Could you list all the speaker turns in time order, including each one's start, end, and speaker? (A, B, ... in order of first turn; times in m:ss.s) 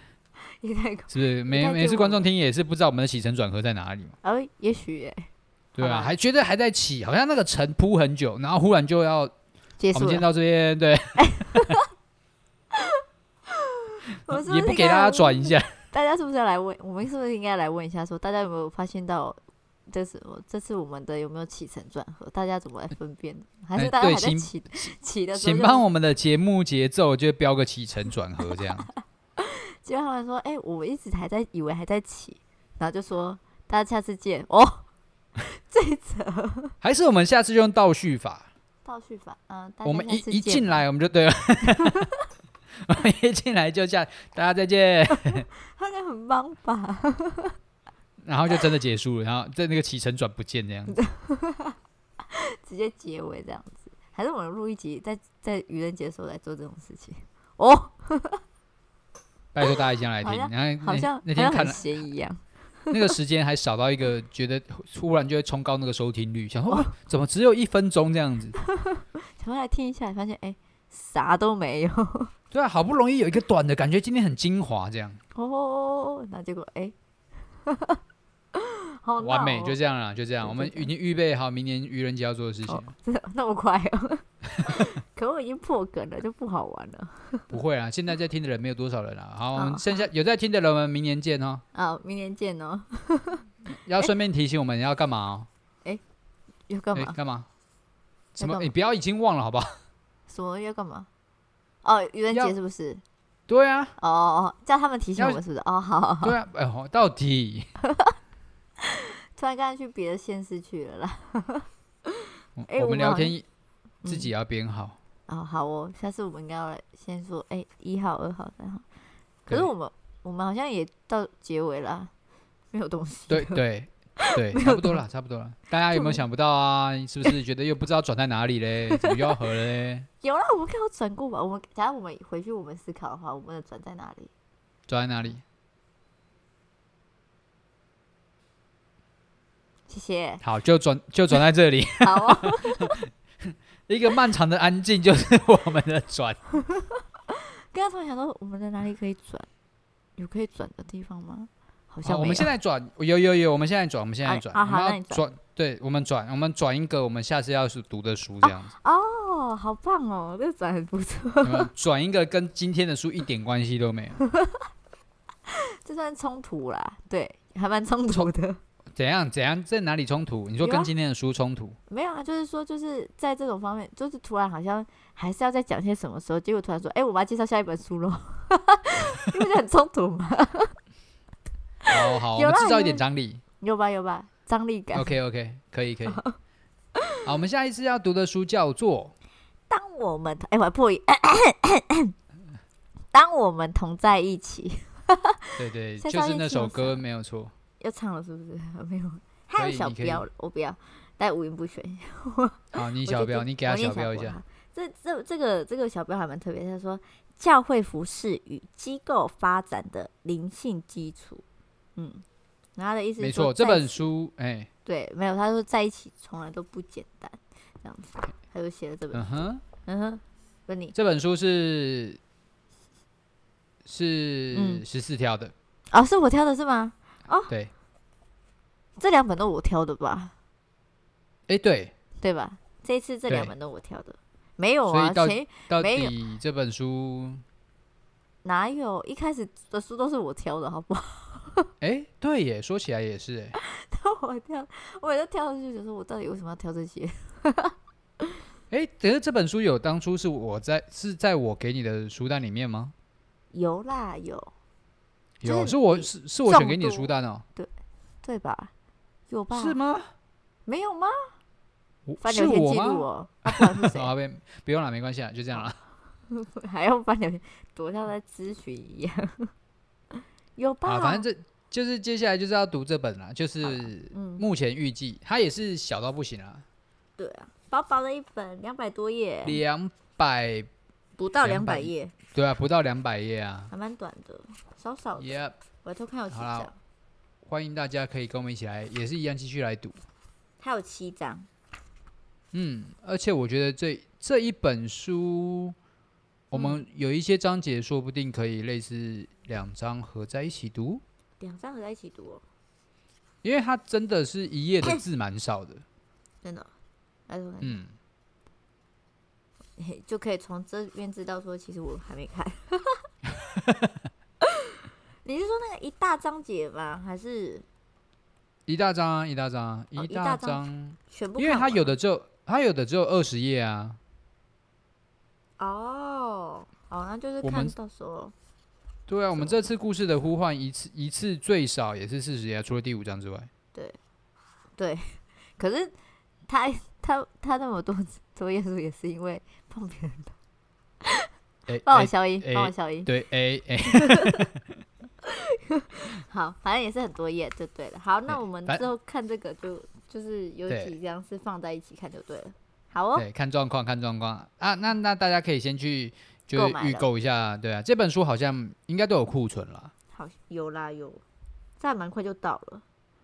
0:00.6-0:02.2 A
0:01.1-0:04.2 B
0:04.2-0:05.3 A
0:05.8-0:09.3 B
0:05.8-0:06.1 A
0:09.8-0:10.3 A
0:09.9-0:11.8 B
0:11.2-0:11.9 A
0:12.7-0:25.8 A
0:14.3-0:15.8 B
0:23.8-0:28.9 B
0:29.4-0:34.9 A
0:35.4-0:36.7 A
0:36.8-0:38.5 B
0:38.8-0:40.8 A
0:39.8-0:42.1 B
0:41.8-0:42.1 A
0:42.9-0:45.5 B
0:45.1-0:47.6 A
0:48.2-0:51.0 B
0:50.9-0:51.8 A
0:52.3-0:58.4 A
0:59.5-1:01.8 B
1:00.2-1:03.2 A
1:02.9-1:08.6 B
1:08.6-1:12.3 A
1:12.5-1:15.2 B
1:15.4-1:16.9 A
1:17.7-1:18.0 A
1:18.5-1:19.8 A
1:19.2-1:22.9 B
1:20.4-1:20.9 A
1:22.7-1:27.5 A
1:27.5-1:31.6 B
1:29.6-1:30.1 A
1:31.7-1:33.4 A
1:33.8-1:35.5 B
1:36.7-1:37.2 A
1:37.0-1:37.5 B
1:38.4-1:39.7 B
1:38.4-1:38.7 A
1:40.3-1:41.1 A
1:41.8-1:43.0 A
1:43.5-1:44.0 B
1:44.0-1:46.4 A
1:46.2-1:47.7 B
1:47.9-1:48.1 A
1:48.8-1:53.4 A
1:52.6-1:53.4 B
1:54.0-1:54.3 A
1:54.1-1:55.0 B
1:55.3-1:58.8 A
1:59.5-2:02.1 A
2:02.7-2:03.6 A
2:03.3-2:10.1 B
2:04.2-2:05.0 A
2:05.9-2:06.2 A
2:08.9-2:09.3 A
2:10.2-2:14.3 A
2:14.9-2:15.4 B
2:19.9-2:20.4 A
2:20.4-2:23.0 B
2:22.0-2:23.0 A
2:23.9-2:26.4 B
2:26.7-2:29.5 A
2:30.2-2:32.5 A
2:32.0-2:38.7 B
2:34.2-2:35.2 A
2:38.4-2:41.7 A
2:41.4-2:44.2 B
2:44.3-2:44.6 A
2:45.5-2:48.6 A
2:49.0-2:51.8 B
2:50.6-2:50.9 A
2:51.9-3:00.7 A
3:01.8-3:03.0 A
3:01.9-3:03.4 B
3:03.6-3:05.2 A
3:04.9-3:06.2 B
3:06.1-3:06.4 A
3:07.2-3:09.1 B
3:09.7-3:12.1 A
3:13.1-3:17.0 A
3:15.6-3:17.5 B
3:17.8-3:31.4 A
3:19.6-3:20.3 B
3:22.8-3:24.4 B
3:32.0-3:32.2 A
3:32.8-3:34.1 A
3:33.2-3:34.7 B
3:34.9-3:40.9 A
3:39.1-3:39.6 B
3:40.9-3:42.2 B
3:43.8-3:45.5 B
3:44.5-3:44.8 A
3:45.9-3:47.5 A
3:49.0-3:50.3 A
3:51.5-3:51.9 B
3:52.2-3:56.1 A
3:53.3-3:53.5 B
3:54.9-3:57.4 B
3:58.4-4:01.7 A
4:01.8-4:03.6 B
4:03.6-4:07.8 A
4:08.7-4:12.9 B
4:13.5-4:14.5 A
4:15.4-4:17.4 B
4:15.4-4:17.7 A
4:18.2-4:18.7 A
4:19.3-4:19.8 A
4:19.5-4:20.1 B
4:20.7-4:21.3 A
4:22.1-4:25.8 B
4:22.2-4:24.1 A
4:26.3-4:29.5 A
4:30.6-4:31.2 A
4:30.9-4:36.6 B
4:33.6-4:34.4 A
4:37.2-4:39.6 A
4:39.4-4:40.7 B
4:41.2-4:42.1 A
4:41.4-4:43.7 B
4:43.7-4:46.8 A
4:45.2-4:45.6 B
4:46.3-4:46.7 B
4:47.5-4:50.0 B
4:50.6-4:51.5 A
4:52.5-4:55.8 B
4:56.5-5:01.0 B
4:56.5-4:56.8 A
5:01.4-5:02.4 A
5:03.4-5:05.8 B
5:06.4-5:06.7 A
5:07.3-5:07.8 A
5:07.6-5:07.9 B
5:09.8-5:13.0 A
5:13.7-5:13.9 B
5:14.4-5:14.7 A
5:15.2-5:17.7 A
5:18.7-5:24.0 B
5:20.0-5:21.9 A
5:25.6-5:28.3 A
5:27.4-5:27.7 B
5:29.1-5:33.5 B
5:34.8-5:35.9 A
5:36.5-5:40.4 A
5:41.7-5:44.7 B
5:41.9-5:43.1 A
5:43.9-5:44.5 A
5:45.3-5:53.3 A
5:48.3-5:48.8 B
5:50.7-5:50.9 B
5:53.2-5:59.9 B
5:56.5-5:57.1 A
6:00.1-6:01.2 A
6:01.8-6:02.8 A